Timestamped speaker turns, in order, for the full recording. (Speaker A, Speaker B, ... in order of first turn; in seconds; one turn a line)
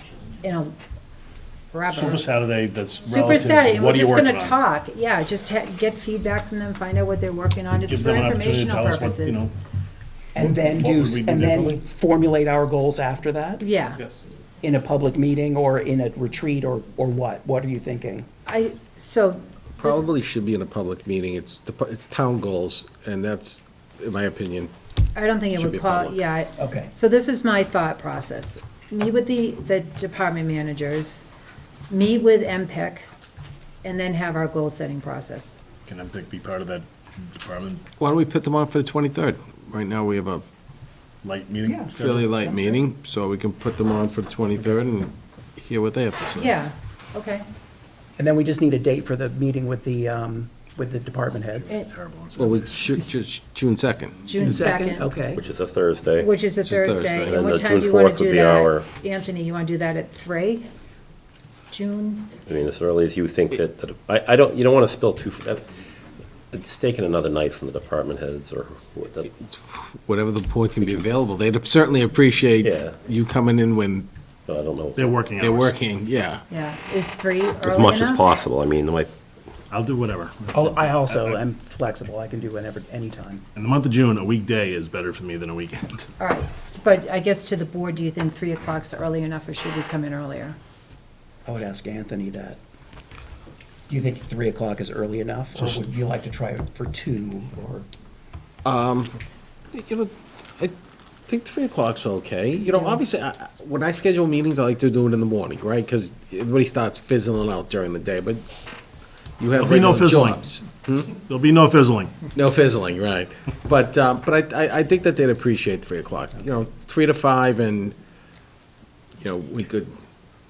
Speaker A: 0.4-0.8
Speaker A: 1.7-2.3
Speaker B: 1.9-4.6
Speaker A: 3.1-9.5
Speaker B: 7.8-9.5
Speaker C: 10.3-13.6
Speaker B: 10.4-11.8
Speaker A: 13.6-14.1
Speaker C: 14.6-18.3
Speaker A: 18.5-20.0
Speaker D: 19.8-24.7
Speaker A: 25.2-31.2
Speaker D: 25.5-26.2
Speaker C: 26.6-26.9
Speaker A: 31.9-33.1
Speaker A: 33.8-35.6
Speaker B: 35.9-37.8
Speaker D: 38.0-40.4
Speaker B: 41.2-42.3
Speaker C: 41.6-42.8
Speaker D: 41.9-46.5
Speaker A: 46.3-47.4
Speaker C: 48.2-51.7
Speaker B: 51.5-53.0
Speaker D: 52.4-54.2
Speaker A: 54.2-55.1
Speaker C: 54.3-55.4
Speaker E: 55.2-56.3
Speaker A: 56.2-60.7
Speaker D: 56.6-57.4
Speaker E: 57.2-58.9
Speaker A: 61.7-62.3
Speaker E: 62.4-65.7
Speaker E: 66.5-69.3
Speaker D: 69.4-74.1
Speaker E: 70.8-71.1
Speaker E: 72.6-73.0
Speaker E: 74.5-75.2
Speaker B: 75.0-75.8
Speaker D: 75.4-76.4
Speaker A: 76.5-78.2
Speaker E: 77.6-79.1
Speaker B: 79.7-81.4
Speaker C: 80.5-83.4
Speaker B: 83.5-86.1
Speaker A: 86.2-90.6
Speaker C: 91.4-92.6
Speaker C: 93.9-97.9
Speaker D: 98.6-99.2
Speaker D: 99.7-100.8
Speaker D: 101.3-108.4
Speaker D: 109.4-111.1
Speaker B: 109.6-110.4
Speaker B: 111.1-112.2
Speaker D: 112.3-118.0
Speaker D: 119.2-119.9